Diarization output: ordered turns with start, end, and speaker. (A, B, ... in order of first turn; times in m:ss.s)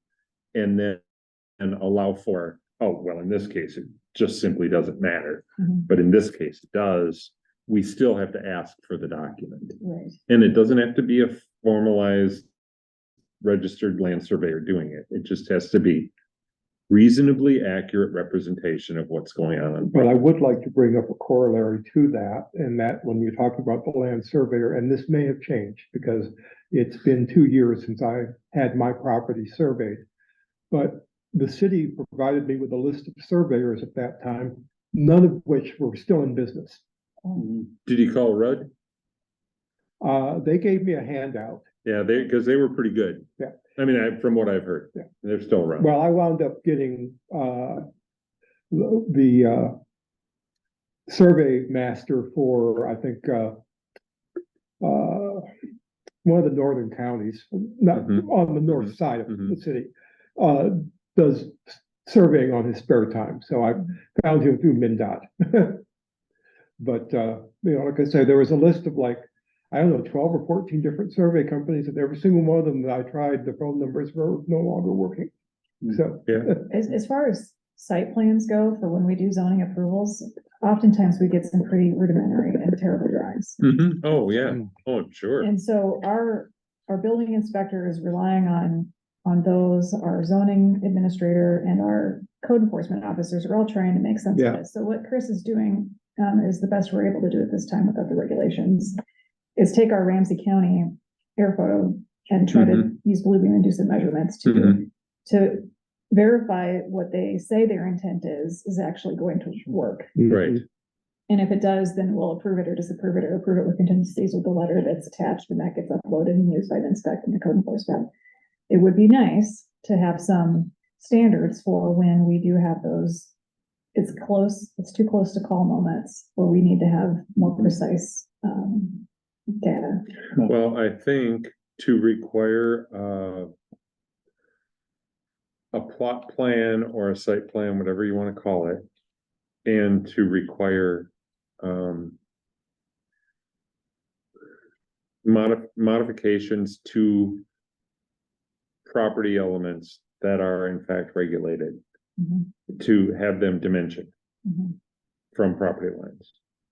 0:00.5-0:01.0 A
0:01.6-0:12.5 A
0:09.8-0:10.2 B
0:13.4-0:16.1 A
0:16.9-0:20.1 A
0:19.9-0:30.0 C
0:30.7-0:36.8 C
0:37.4-0:38.7 A
0:40.0-0:41.6 C
0:41.8-0:45.9 A
0:45.8-0:47.8 C
0:48.7-0:49.7 C
0:51.1-0:53.6 C
0:54.8-0:55.5 C
0:56.2-1:05.8 C
1:06.8-1:15.3 C
1:15.8-1:16.7 C
1:16.2-1:16.5 A
1:16.7-1:23.6 B
1:23.6-1:25.5 A
1:25.4-1:39.0 B
1:34.3-1:34.6 C
1:39.6-1:50.1 B
1:50.2-1:50.6 C
1:50.3-1:50.6 A
1:51.3-1:58.1 B
1:58.7-2:03.3 B
2:03.9-2:09.0 B
2:09.6-2:10.1 B
2:10.4-2:13.5 A
2:15.7-2:18.8 A
2:19.6-2:21.1 A
2:21.6-2:22.2 A
2:25.2-2:27.4 A
2:28.8-2:31.8 A
2:32.2-2:32.5 B
2:32.7-2:34.1 A
2:34.4-2:34.7 B
2:35.3-2:36.3 A